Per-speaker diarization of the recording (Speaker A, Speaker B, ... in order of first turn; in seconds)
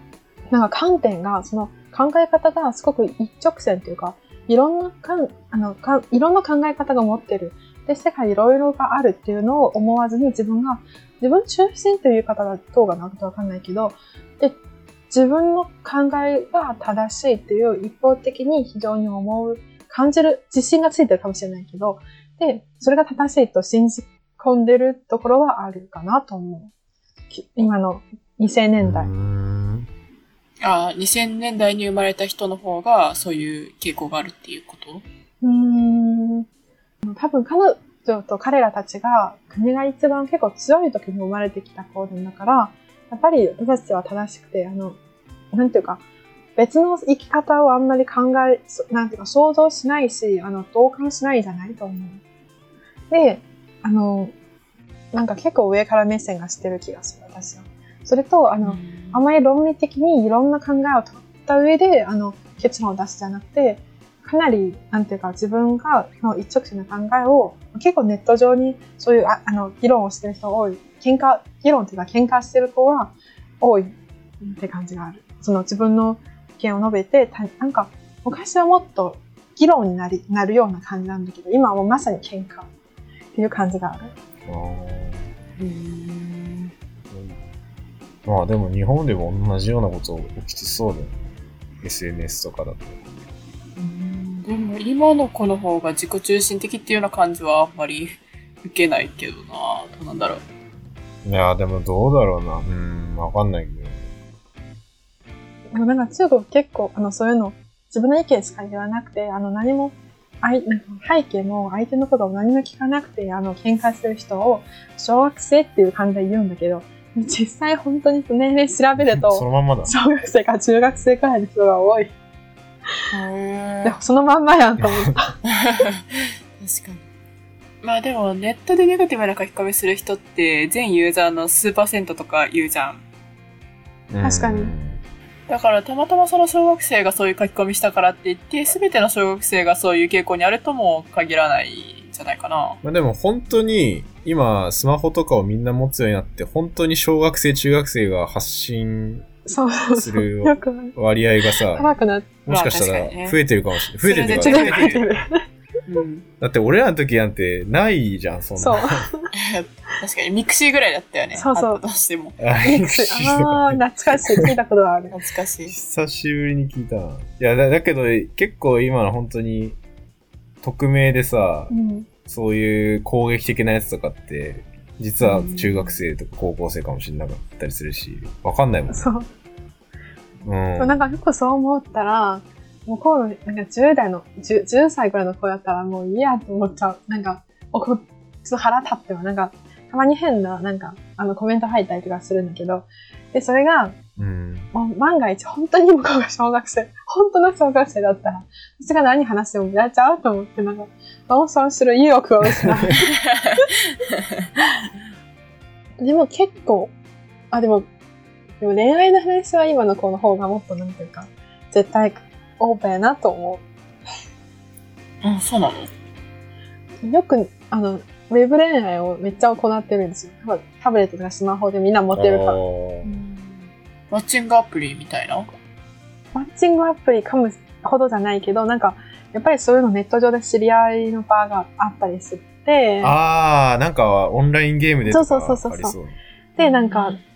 Speaker A: 0.5-14.6, 15.1-26.7, 27.3-29.1, 35.4-36.5, 37.0-45.0, 45.5-46.0, 46.6-52.2, 53.1-54.3, 55.1-82.7, 83.3-84.1, 105.7-122.1, 123.8-125.4, 134.2-134.7, 149.5-150.9, 151.7-152.3, 154.4-155.4, 158.6-159.3, 161.4-161.8, 162.6-165.2, 171.7-172.1, 178.9-179.3, 180.8-194.1, 194.7-203.7, 206.0-206.9, 207.5-207.9, 208.6-213.7, 217.0-222.6, 226.3-233.2, 235.1-236.0, 236.6-237.2
Speaker B: 28.8-29.9, 84.5-85.3, 87.1-87.4, 88.2-91.2, 91.8-93.0, 101.2-104.0, 119.0-119.9, 134.1-135.0, 142.8-149.3, 149.9-151.9, 152.4-155.1, 156.4-159.1, 162.4-164.5, 165.7-169.8, 170.6-171.7, 172.3-179.1, 180.4-181.2, 194.2-194.7, 202.6-202.9, 222.1-223.2, 233.0-236.2
Speaker C: 30.6-35.0, 58.6-59.2, 85.6-86.7, 93.8-100.4, 123.1-124.0, 125.5-127.0, 127.8-133.0, 135.5-142.8, 152.5-153.4, 154.0-155.1, 155.9-156.3, 159.3-162.4, 165.1-165.8, 175.2-176.0, 215.2-215.9, 223.1-225.5, 236.6-237.2